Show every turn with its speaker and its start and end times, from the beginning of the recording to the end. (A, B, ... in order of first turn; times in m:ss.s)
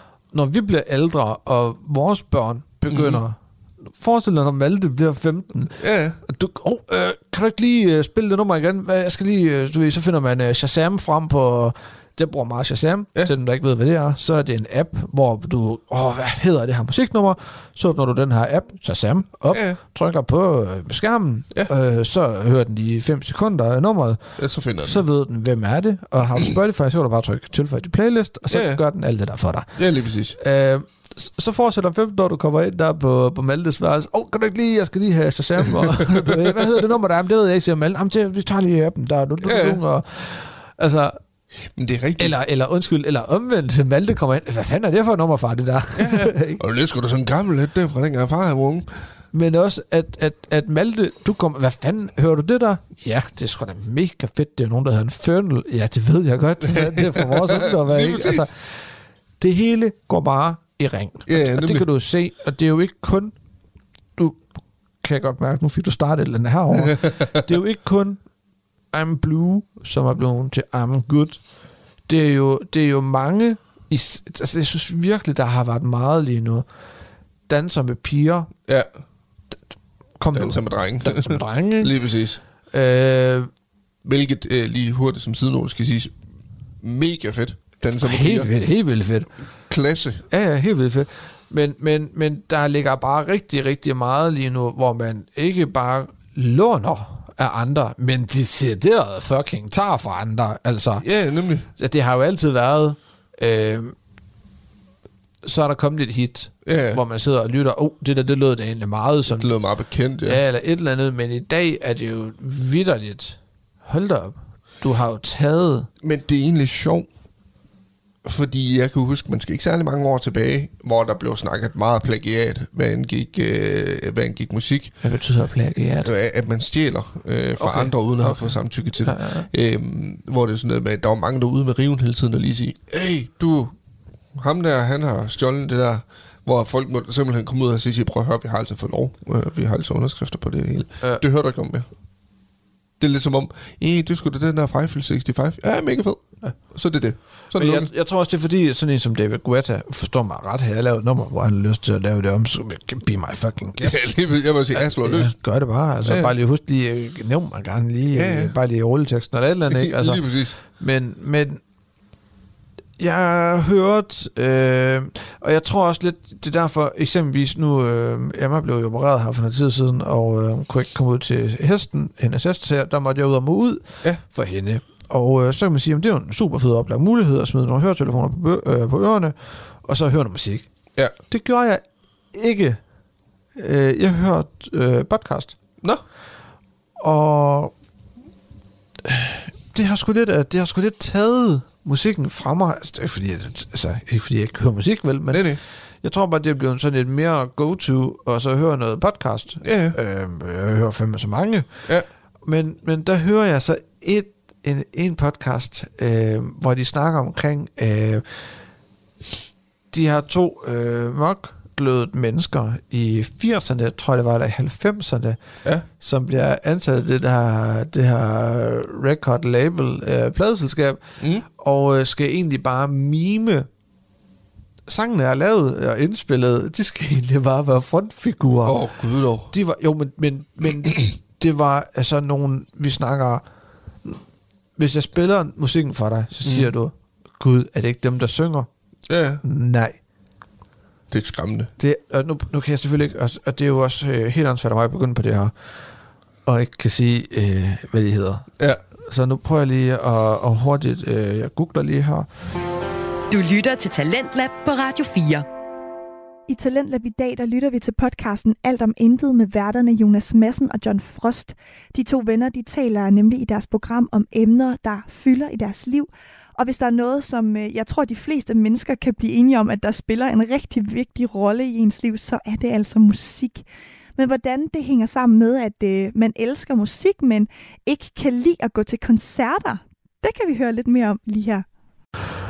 0:00.3-0:03.4 A
0:02.9-0:03.2 B
0:03.9-0:29.8 A
0:05.8-0:06.2 B
0:19.5-0:19.8 B
0:24.4-0:25.0 B
0:28.5-0:28.8 B
0:29.8-0:30.4 B
0:30.4-0:41.2 A
0:36.1-0:36.4 B
0:39.4-0:39.8 B
0:41.8-0:42.3 B
0:42.2-0:46.6 A
0:46.0-0:48.9 B
0:49.3-0:58.8 A
0:56.6-0:58.5 B
0:59.4-1:03.3 A
1:01.3-1:01.9 B
1:04.2-1:04.4 A
1:05.0-1:08.2 A
1:06.9-1:07.3 B
1:08.9-1:11.4 A
1:12.1-1:16.6 A
1:17.5-1:18.5 A
1:20.2-1:21.9 A
1:20.3-1:22.4 B
1:22.7-1:23.5 A
1:24.0-1:26.1 B
1:26.8-1:28.5 B
1:28.0-1:29.3 A
1:29.7-1:30.2 B
1:30.3-1:41.0 A
1:41.0-1:41.7 B
1:41.8-1:43.9 A
1:45.4-1:49.5 A
1:46.6-1:47.0 B
1:49.3-1:50.4 B
1:50.2-1:55.9 A
1:56.0-1:57.1 B
1:58.2-2:04.9 B
2:05.0-2:06.1 A
2:06.0-2:13.7 B
2:07.6-2:09.5 A
2:14.3-2:21.8 B
2:23.0-2:27.9 B
2:27.5-2:34.0 A
2:33.8-2:35.3 B
2:34.7-2:41.6 A
2:36.0-2:36.3 B
2:38.1-2:38.6 B
2:39.7-2:40.6 B
2:43.0-3:00.7 A
3:01.3-3:02.8 A
3:03.5-3:05.6 A
3:07.0-3:07.7 A
3:09.0-3:21.9 A
3:15.3-3:15.6 B
3:19.6-3:20.0 B
3:22.4-3:28.4 A
3:29.9-3:35.4 A
3:36.0-3:43.7 A
3:41.2-3:41.4 B
3:44.9-3:48.8 A
3:48.6-3:49.5 B
3:49.5-3:53.4 A
3:54.8-3:58.7 A
3:56.4-3:56.7 B
3:59.1-3:59.4 B
3:59.4-4:00.0 A
4:01.1-4:01.7 B
4:01.8-4:05.5 A
4:06.4-4:08.5 A
4:09.0-4:12.3 A
4:13.3-4:15.4 C
4:16.5-4:33.6 D
4:34.2-4:41.6 D